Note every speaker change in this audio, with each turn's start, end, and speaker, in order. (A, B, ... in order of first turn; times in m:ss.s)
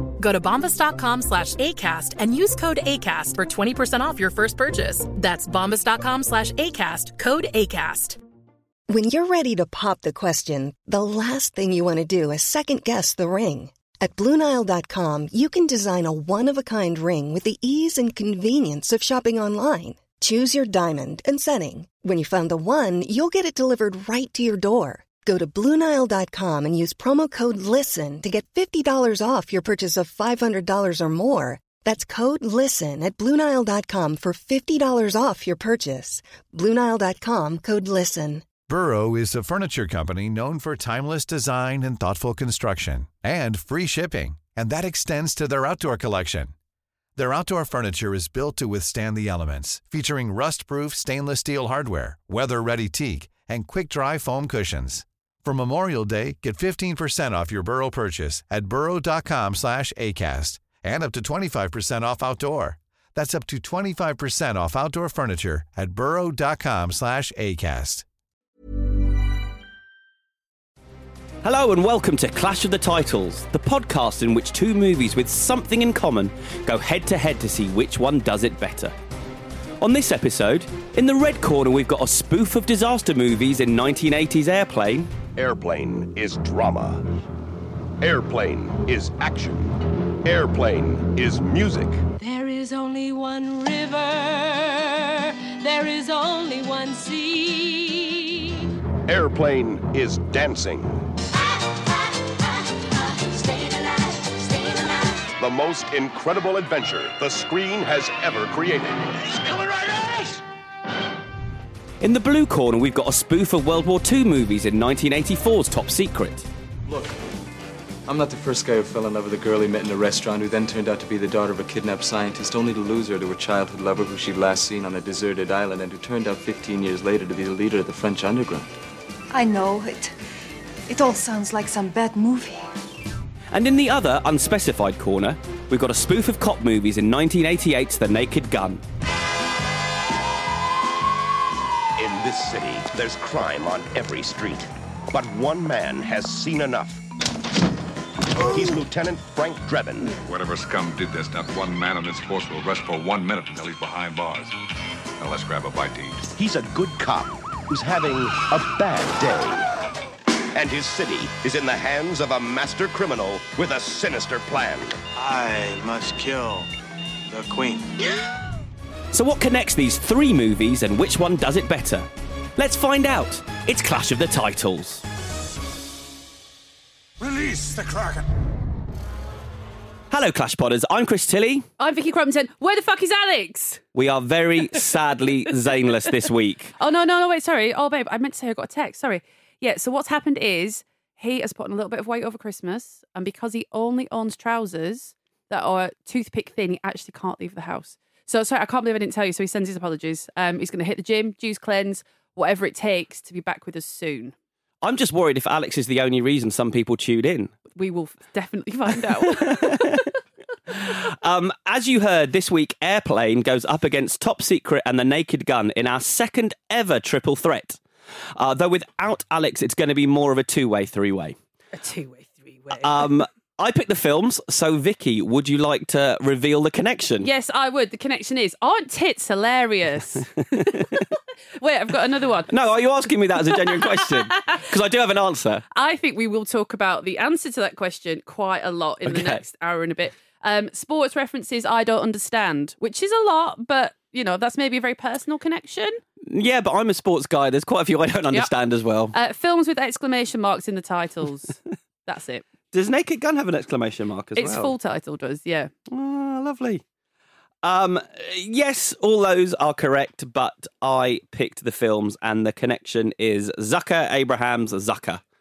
0:00.2-0:08.2 A
0:08.9-0:38.5 B
0:38.7-0:46.5 C
0:47.2-1:08.0 C
1:11.4-1:18.9 D
1:19.8-1:25.1 D
1:25.4-1:27.0 E
1:28.0-1:32.0 E
1:32.2-1:38.6 F
1:39.1-1:41.1 E
1:41.5-1:45.3 F
1:45.4-1:49.3 E
1:52.0-1:56.5 D
1:56.9-1:57.2 G
1:58.1-2:08.7 G
2:09.3-2:10.2 H
2:10.9-2:12.7 H
2:13.5-2:18.8 D
2:22.0-2:27.0 E
2:28.3-2:30.2 E
2:30.2-2:34.6 I
2:35.2-2:36.3 I
2:36.4-2:39.7 E
2:40.5-2:45.0 E
2:45.2-2:46.7 J
2:47.3-2:48.0 J
2:49.1-2:55.0 D
2:57.2-2:58.1 J
3:00.1-3:01.7 D
3:01.8-3:03.8 K
3:04.0-3:06.7 D
3:06.8-3:24.3 K
3:24.8-3:27.5 D
3:27.7-3:30.1 K
3:29.2-3:30.0 D
3:30.7-3:37.8 D
3:38.4-3:41.4 D
3:41.7-3:43.1 K
3:42.7-3:47.3 D
3:47.2-3:52.6 K
3:50.7-3:51.0 D
3:52.5-3:55.6 D
3:53.5-3:54.6 K
3:55.7-4:06.0 K
3:59.0-3:59.4 D
4:06.3-4:09.2 D
4:09.1-4:12.5 K
4:12.7-4:14.7 D
4:14.4-4:15.7 K
4:15.9-4:16.8 D
4:17.6-4:25.2 D